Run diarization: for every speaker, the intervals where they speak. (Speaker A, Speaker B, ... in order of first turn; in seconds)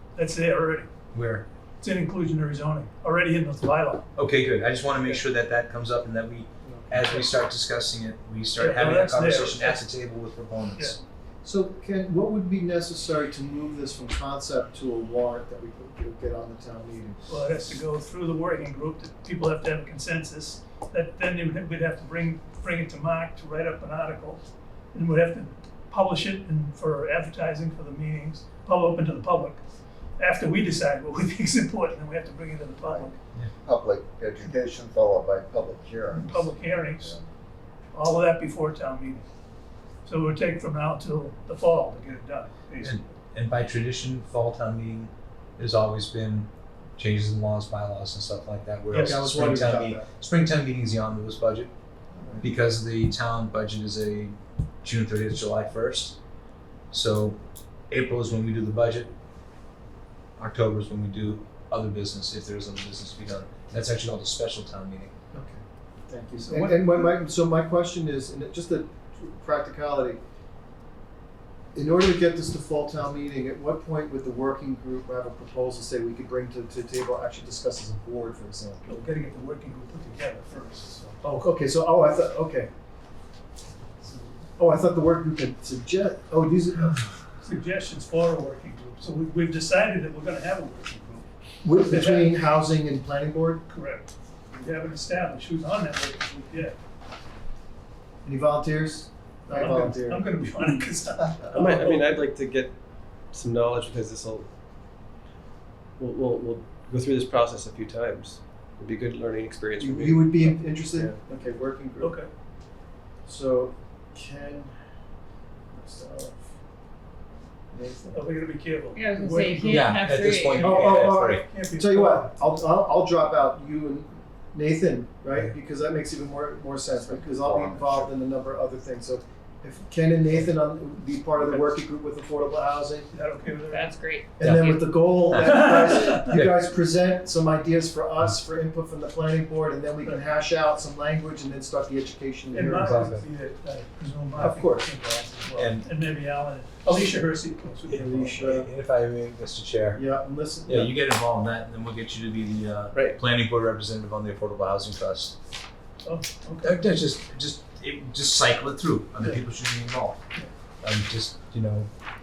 Speaker A: 0.2-0.9, 1.8-4.1, 8.6-9.9, 17.3-24.4, 24.9-29.6, 30.2-33.2, 36.1-37.1, 37.9-39.3, 40.0-43.0, 66.4-67.1, 78.9-81.3, 87.4-91.3, 91.8-92.5, 93.7-96.8, 99.5-102.2, 112.0-112.3, 118.1-120.0, 120.6-122.3, 133.1-134.0, 135.4-136.2, 142.5-148.1, 156.0-156.9
Speaker B: 1.1-1.4, 4.2-11.0, 42.8-51.7, 52.4-56.2, 56.9-59.1, 60.4-65.1, 119.7-121.5, 134.4-135.5, 142.8-143.2, 145.6-145.9, 147.9-150.1, 150.7-155.4, 156.6-160.2, 160.8-161.9
Speaker C: 6.6-7.3, 11.4-17.2, 48.9-50.1, 52.1-52.5, 65.3-70.2, 71.7-78.8, 81.2-82.7, 84.6-87.1, 91.6-93.6, 98.2-100.3, 109.8-112.2, 113.2-114.7, 115.7-116.5, 117.7-118.2, 120.5-133.1, 134.4-143.1, 144.4-144.9, 147.9-148.7, 149.9-150.9
Speaker D: 32.8-37.2, 127.0-128.1
Speaker E: 101.5-104.5, 106.0-111.2
Speaker F: 119.0-120.8, 133.6-134.8